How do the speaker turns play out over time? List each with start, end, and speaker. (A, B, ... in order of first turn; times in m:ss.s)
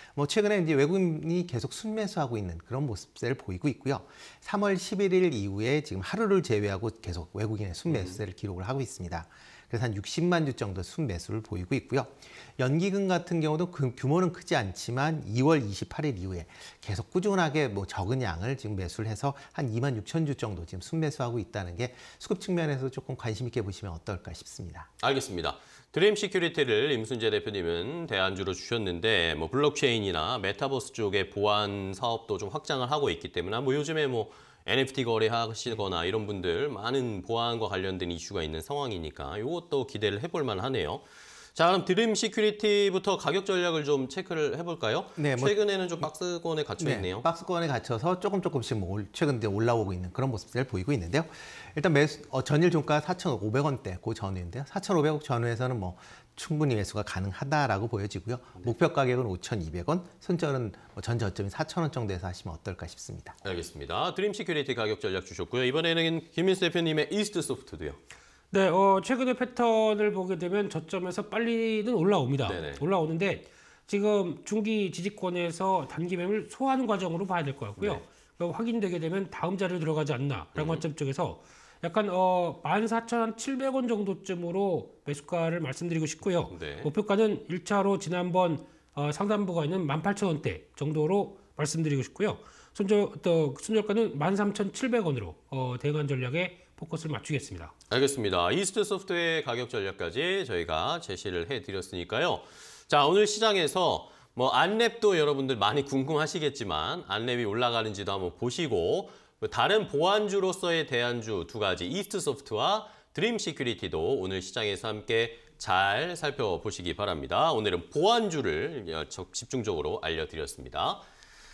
0:00.2-0:24.9 A
0:07.9-0:08.2 B
0:25.0-0:41.0 B
0:41.5-0:47.3 B
0:45.2-0:46.0 A
0:46.8-1:03.4 A
1:03.4-1:08.0 B
1:08.5-1:37.7 C
1:12.4-1:12.8 B
1:17.8-1:18.0 B
1:20.5-1:20.8 B
1:26.5-1:26.9 B
1:37.9-2:01.0 B